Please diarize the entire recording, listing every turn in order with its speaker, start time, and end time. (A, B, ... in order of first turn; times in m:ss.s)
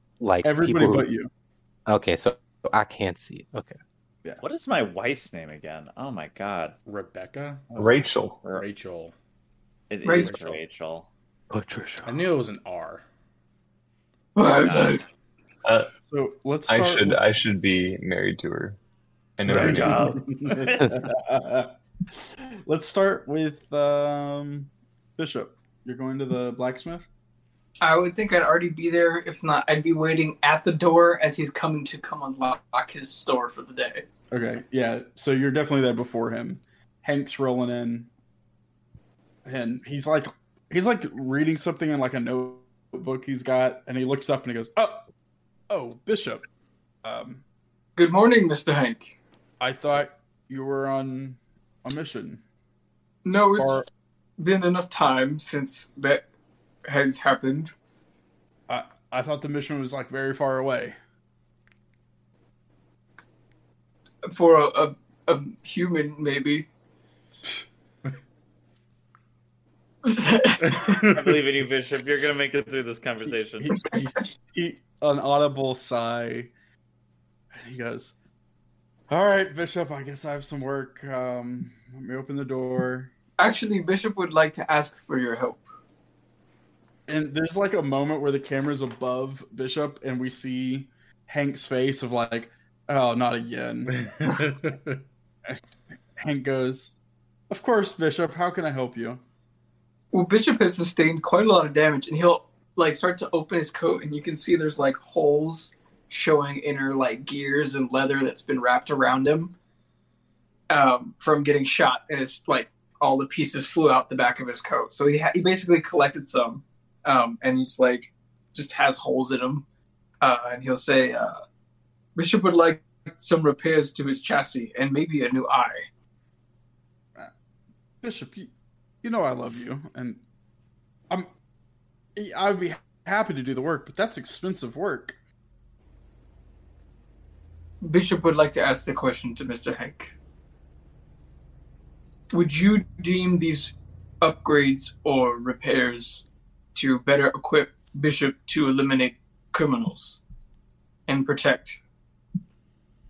0:00.2-0:01.1 A
0:00.4-0:01.3 B
0:01.9-0:03.8 A
0:04.4-0:06.8 C
0:06.9-0:07.8 D
0:07.7-0:08.0 B
0:07.8-0:08.6 E
0:08.4-0:09.1 D
0:09.9-0:11.1 C
0:10.0-0:10.4 F
0:10.1-0:10.6 D
0:11.5-0:12.2 A
0:12.0-0:13.0 D
0:14.4-0:15.0 F
0:14.5-0:15.0 C
0:15.6-0:15.9 E
0:16.1-0:17.2 B
0:16.7-0:18.8 E
0:19.4-0:20.3 E
0:19.5-0:27.0 B
0:19.6-0:20.9 C
0:27.8-0:34.0 F
0:34.3-0:38.1 B
0:39.4-0:45.1 B
0:45.7-0:46.5 B
0:47.0-0:47.4 B
0:48.0-0:49.2 F
0:49.6-0:52.4 B
0:53.2-0:56.2 F
0:53.6-0:53.9 B
0:56.8-0:57.7 F
0:58.7-1:01.0 B
1:04.3-1:06.7 F
1:10.0-1:11.1 F
1:11.0-1:13.9 C
1:13.6-1:16.5 B
1:17.5-1:18.2 B
1:19.1-1:23.1 B
1:23.4-1:25.6 F
1:27.1-1:34.0 B
1:33.9-1:35.0 D
1:36.2-1:37.0 B
1:37.5-1:39.2 B
1:40.1-1:49.5 F
1:50.7-1:59.6 F
2:00.2-2:01.4 F
2:02.2-2:05.9 F
2:08.0-2:08.5 B
2:09.0-2:10.2 B
2:12.2-2:15.2 B
2:17.8-2:20.1 F
2:22.3-2:26.2 F
2:26.8-2:30.2 F
2:31.1-2:31.8 F